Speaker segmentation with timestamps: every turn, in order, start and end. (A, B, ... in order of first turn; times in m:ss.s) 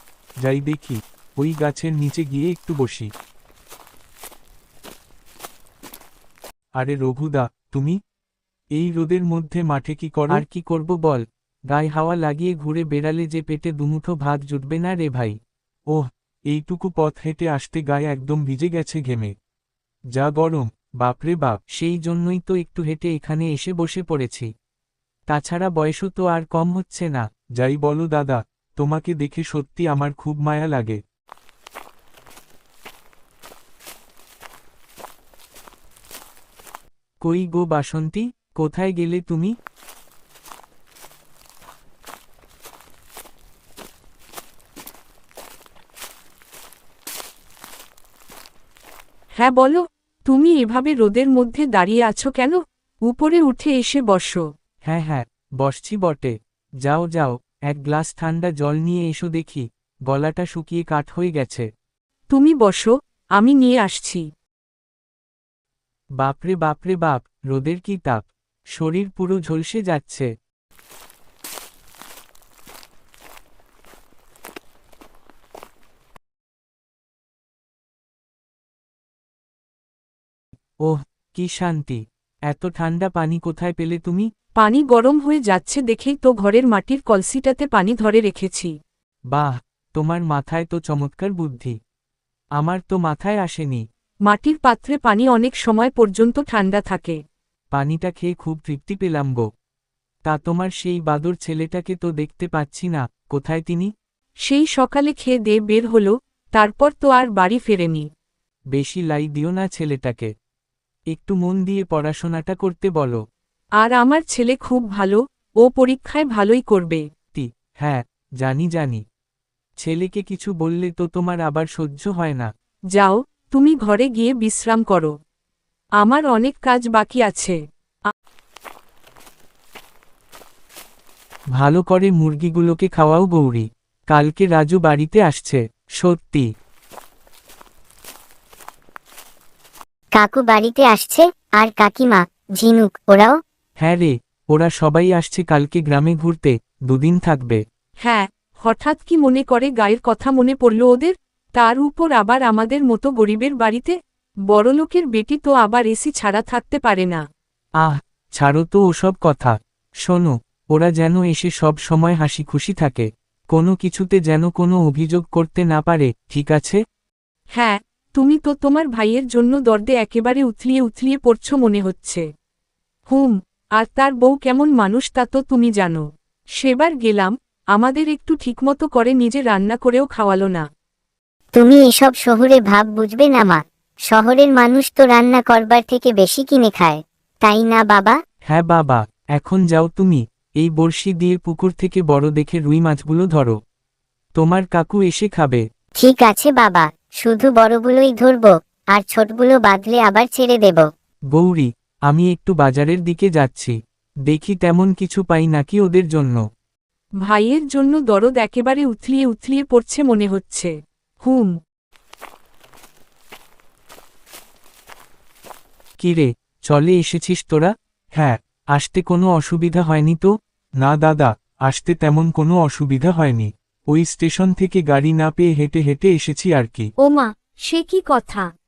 0:00.4-0:00.8 A
0:01.4-0:03.1 A
0:06.8-0:07.7 B
0:07.2-0:07.9 A
0:08.8-0:10.4 A
0:10.3-0:15.4 B
0:15.9-0:19.3 A
0:20.1-0:21.6 A
0:21.7-0:24.5 B
0:25.3-0:27.2 B
0:27.6-0:31.0 A
0:37.2-0:39.5 B
0:49.4-0:54.4 C
0:54.8-1:01.7 B
1:02.3-1:04.2 C
1:06.2-1:10.3 B
1:20.8-1:24.3 B
1:24.6-1:28.7 C
1:29.3-1:31.8 B
1:32.6-1:33.8 B
1:34.3-1:37.2 C
1:37.7-1:39.5 B
1:40.2-1:43.9 B
1:44.4-1:48.1 C
1:48.7-1:50.3 B
1:51.1-1:53.2 B
1:53.8-1:57.0 C
1:57.3-1:59.0 B
1:59.8-2:02.5 B
2:02.9-2:05.1 C
2:06.0-2:07.6 C
2:11.6-2:16.5 B
2:20.2-2:23.3 D
2:23.8-2:27.6 B
2:28.0-2:34.0 C
2:34.5-2:37.2 C
2:37.8-2:46.8 B
2:47.6-2:52.2 C
2:53.1-2:56.0 C
2:56.6-3:00.6 C
3:01.6-3:08.2 D
3:08.5-3:13.6 B
3:14.4-3:15.6 B
3:16.0-3:20.9 D
3:21.3-3:26.4 B
3:27.2-3:31.5 C
3:36.0-3:40.3 B
3:40.8-3:46.7 A
3:42.6-3:43.0 B
3:44.4-3:44.8 B
3:45.3-3:46.0 B
3:47.0-3:48.5 C